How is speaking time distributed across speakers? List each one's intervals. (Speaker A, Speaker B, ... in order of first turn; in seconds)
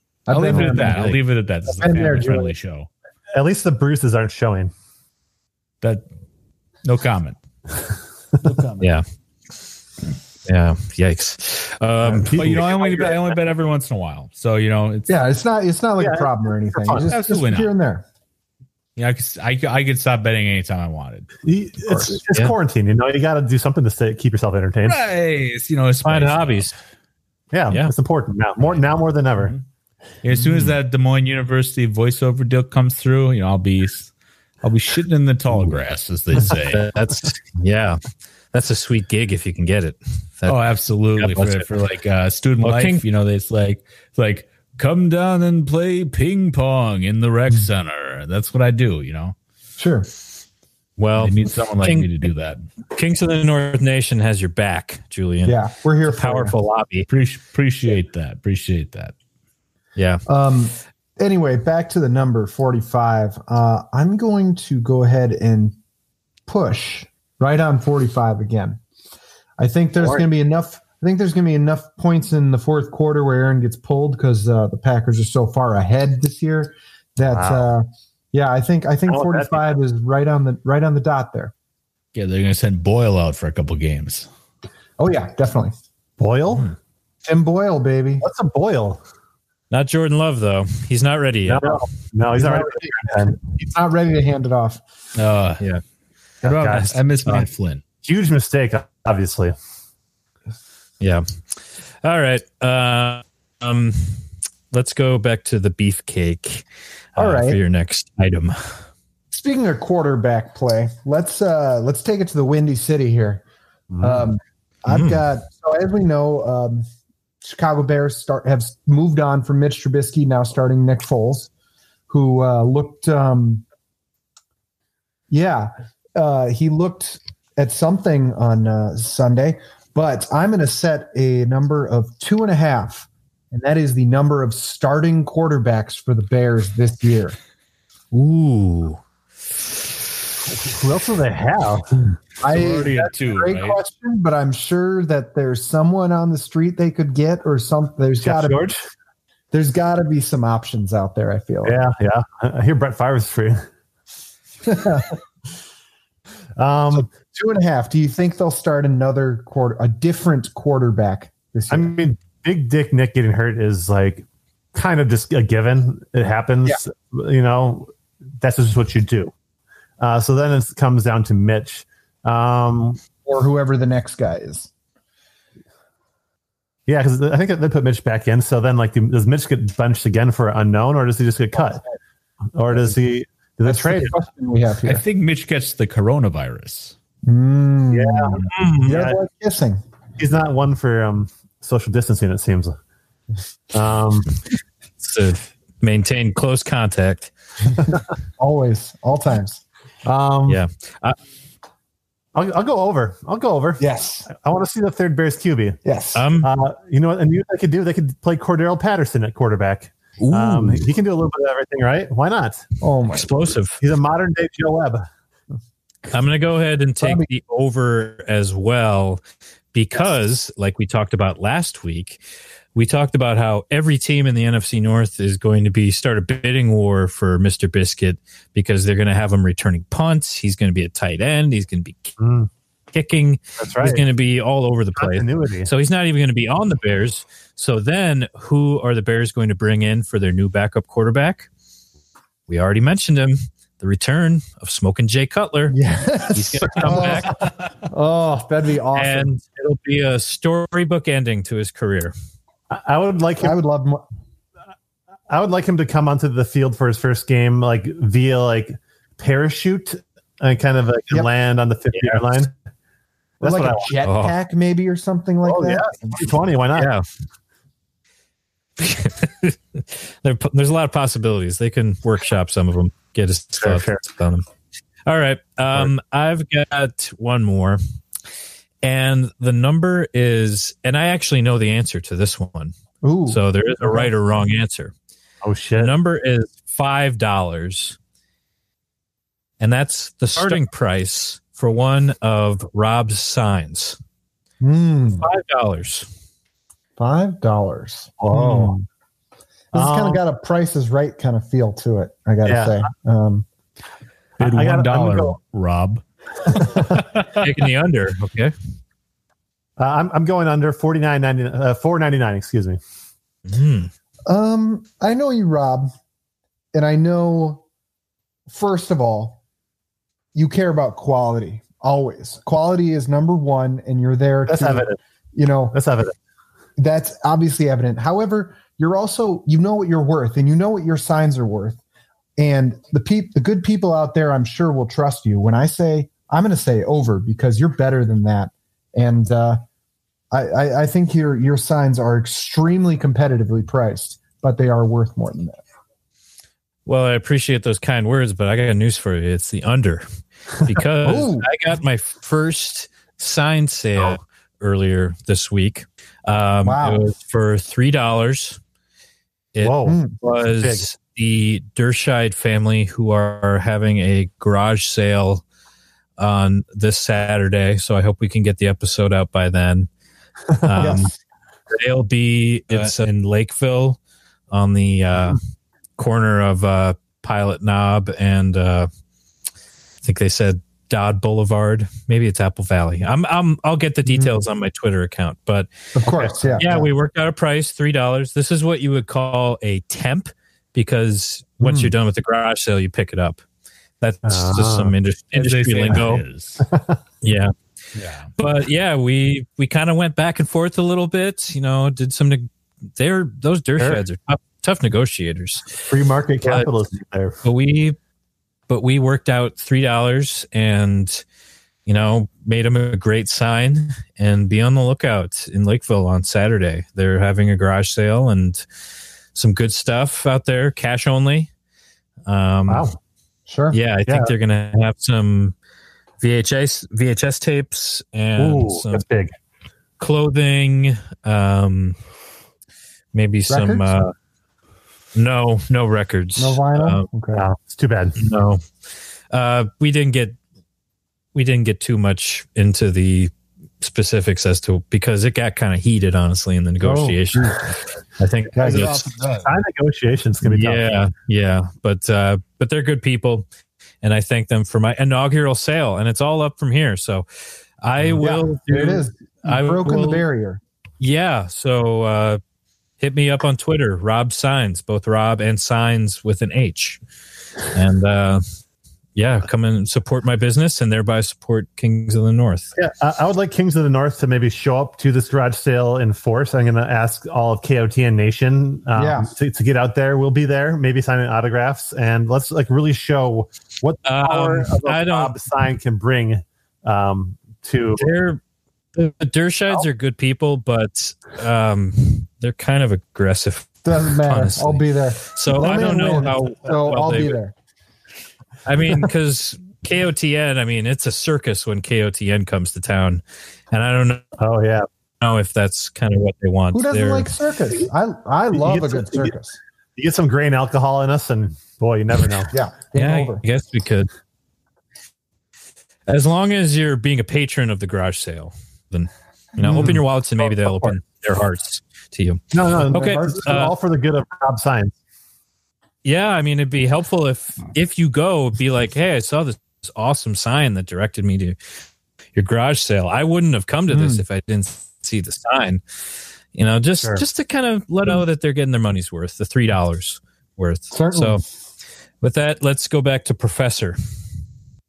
Speaker A: 0.3-1.2, 1.7-2.5, 15.1-18.0, 21.9-22.2, 49.8-50.1, 55.4-56.5, 60.3-65.8, 66.5-68.8, 69.6-81.5, 85.0-85.7, 87.2-88.2, 92.3-94.8, 107.2-107.6, 109.3-113.4, 114.0-116.9, 117.4-121.5, 122.1-123.6, 125.3-137.3, 142.4-148.6, 149.5-151.8, 154.6-155.2, 156.9-161.9, 173.2-174.7, 183.6-185.0, 187.2-189.8, 197.9-199.6, 203.8-204.3, 205.8-206.2, 212.8-213.3, 217.0-217.3, 245.7-249.3, 253.4-254.0, 263.4-266.3, 283.0-284.1, 294.6-295.3, 297.0-298.8, 299.7-303.4, 314.2-315.9, 316.7-317.6, 318.5-319.4, 320.3-325.8, 326.8-331.8, 332.4-339.6, 340.3-345.6, 351.0-351.5, 356.6-357.0, 359.9-360.1, 370.8-371.1, 385.9-386.9, 391.6-391.9, 423.5-423.8, 433.5-434.0, 436.4-437.4, 446.8-447.8, 448.5-449.2, 458.2-460.6, 478.9-479.3, 493.8-497.5, 506.7-509.6, 512.5-513.4, 519.6-520.0, 523.0-523.6, 533.9-534.2, 540.9-541.4
Speaker B: 0.3-2.9, 6.8-7.4, 8.4-8.9, 12.3-15.1, 17.1-17.7, 19.0-21.3, 24.9-26.7, 30.2-34.1, 34.6-36.9, 40.5-49.4, 51.2-52.6, 57.1-59.1, 82.1-84.3, 95.2-95.6, 96.4-97.8, 142.4-143.8, 184.8-186.9, 304.4-306.0, 306.6-307.2, 395.3-396.7, 397.9-398.3
Speaker C: 0.5-0.8, 3.3-4.7, 12.2-13.3, 16.0-17.1, 21.4-25.0, 27.5-29.5, 70.0-70.2, 77.3-77.7, 79.1-79.7, 86.2-86.7, 88.2-89.0, 91.5-93.4, 96.4-97.5, 98.0-99.5, 113.9-114.3, 140.5-142.2, 148.2-148.8, 151.6-153.6, 156.6-157.1, 161.7-167.9, 168.4-169.3, 170.0-173.0, 176.9-181.8, 182.5-184.1, 187.9-189.2, 190.2-192.8, 193.7-194.3, 200.0-200.6, 202.3-205.8, 206.4-212.7, 213.8-215.1, 232.2-232.5, 233.6-234.0, 234.9-235.7, 252.7-253.6, 255.3-262.5, 263.4-263.9, 265.4-266.9, 273.6-274.0, 285.4-285.9, 298.2-298.8, 299.7-300.2, 302.4-302.8, 304.4-305.4, 306.6-307.1, 309.8-312.8, 324.5-325.0, 325.7-326.1, 359.6-360.0, 360.6-360.9, 386.0-386.3, 394.2-394.9, 396.7-396.9, 405.9-407.4, 422.7-422.9, 424.1-424.3, 428.4-429.3, 437.3-438.2, 448.6-450.8, 472.7-488.1, 504.4-504.9, 508.5-509.3, 510.0-512.5, 519.6-521.0, 522.5-524.9, 537.0-537.2
Speaker D: 10.4-12.4, 26.0-26.7, 30.3-30.8, 36.5-38.0, 38.5-40.6, 41.2-41.7, 42.6-43.0, 51.0-52.1, 52.9-57.1, 60.0-60.2, 89.7-91.8, 96.7-96.9, 101.0-101.2, 102.0-108.7, 114.9-115.2, 138.1-139.0, 188.5-189.0, 195.0-197.3, 200.5-201.2, 206.1-206.5, 213.1-213.8, 216.1-219.2, 219.7-222.2, 222.7-232.2, 232.9-241.5, 242.5-245.8, 246.3-247.4, 248.9-252.1, 261.9-262.2, 264.0-264.3, 266.8-267.0, 268.8-274.4, 275.1-277.8, 278.8-282.7, 283.3-284.9, 285.8-288.0, 289.6-294.0, 295.2-296.1, 307.3-308.5, 313.5-313.9, 346.9-350.0, 350.6-358.6, 359.5-365.4, 366.2-369.9, 370.6-371.1, 371.7-374.0, 374.5-375.4, 376.0-378.9, 380.0-385.7, 386.5-393.4, 394.0-396.2, 397.2-397.5, 398.4-405.8, 406.4-406.7, 407.4-408.0, 408.7-411.2, 411.9-418.6, 419.3-421.5, 422.3-422.9, 423.7-425.5, 426.2-429.0, 430.0-432.0, 433.1-434.1, 435.1-437.1, 438.2-438.6, 439.3-440.4, 441.3-449.0, 450.4-453.5, 454.0-457.2, 457.8-460.2, 461.0-462.4, 463.0-467.0, 467.7-468.4, 469.1-472.7, 484.0-485.3, 488.0-488.4, 488.9-497.4, 498.6-504.2, 505.2-507.3, 512.9-514.1, 516.1-523.7, 526.0-531.6, 532.3-535.8, 536.5-541.4, 542.2-544.0